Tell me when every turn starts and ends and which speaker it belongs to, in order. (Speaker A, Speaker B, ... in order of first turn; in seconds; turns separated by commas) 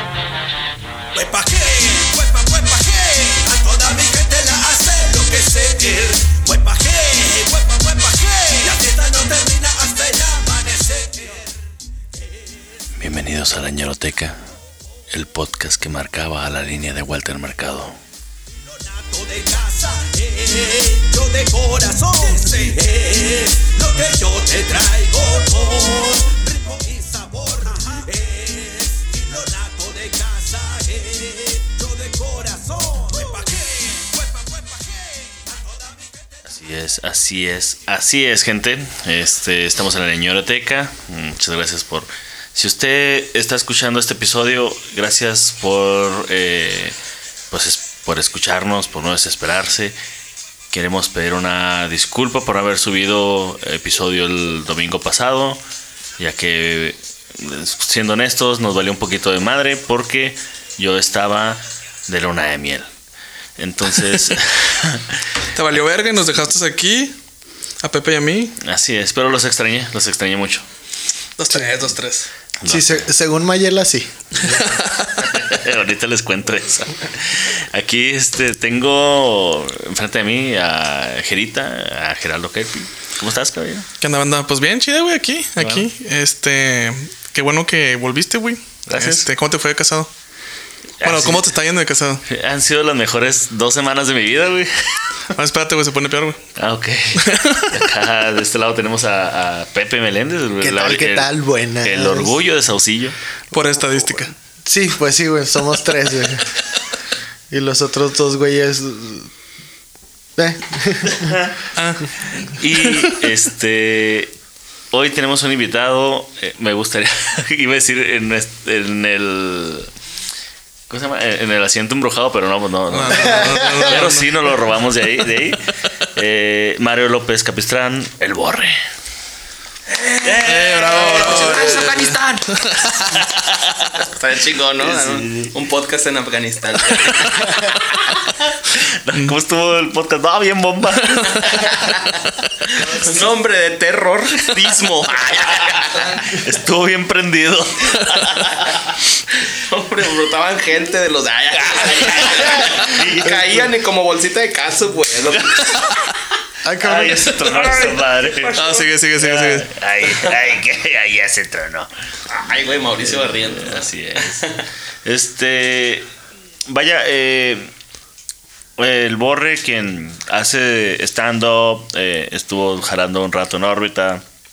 Speaker A: 1.2-11.1, Speaker B: 13.0-14.4, Speaker B: 15.1-18.0, Speaker A: 19.0-34.7, Speaker C: 22.5-22.8, Speaker B: 36.5-47.0, Speaker B: 47.5-50.0, Speaker B: 50.7-55.6, Speaker B: 56.2-62.9, Speaker B: 63.6-65.2, Speaker D: 65.5-67.2, Speaker D: 67.8-68.6, Speaker B: 68.6-70.7, Speaker D: 71.4-72.3, Speaker B: 72.6-73.1, Speaker E: 72.7-74.6, Speaker D: 74.4-75.5, Speaker B: 75.2-83.9, Speaker D: 84.0-90.1, Speaker B: 85.6-85.9, Speaker B: 88.8-89.3, Speaker B: 91.0-91.5, Speaker D: 91.0-92.2, Speaker B: 92.3-94.7, Speaker D: 95.3-96.4, Speaker B: 96.6-101.3, Speaker D: 97.2-97.9, Speaker E: 100.6-102.4, Speaker B: 101.8-103.2, Speaker D: 103.5-104.3, Speaker E: 104.7-106.5, Speaker E: 107.5-109.3, Speaker E: 110.4-111.4, Speaker B: 111.1-111.6, Speaker D: 111.8-112.1, Speaker B: 112.5-114.3, Speaker D: 112.8-113.1, Speaker B: 114.9-119.9, Speaker B: 120.9-128.8, Speaker D: 122.9-124.6, Speaker E: 123.1-124.0, Speaker C: 129.9-132.6, Speaker B: 130.2-131.9, Speaker D: 130.4-133.2, Speaker B: 133.1-133.9, Speaker C: 133.8-137.4, Speaker B: 134.8-135.5, Speaker D: 137.1-137.7, Speaker B: 137.4-137.8, Speaker B: 138.5-141.9, Speaker D: 141.0-141.7, Speaker C: 142.7-146.4, Speaker B: 145.3-148.9, Speaker C: 149.5-155.7, Speaker B: 151.9-153.4, Speaker B: 155.4-155.8, Speaker E: 156.6-157.5, Speaker B: 156.8-158.6, Speaker C: 157.4-158.9, Speaker D: 158.6-159.7, Speaker B: 159.2-161.9, Speaker C: 160.1-160.4, Speaker C: 162.3-164.6, Speaker B: 162.5-166.1, Speaker B: 166.7-167.7, Speaker B: 168.8-174.2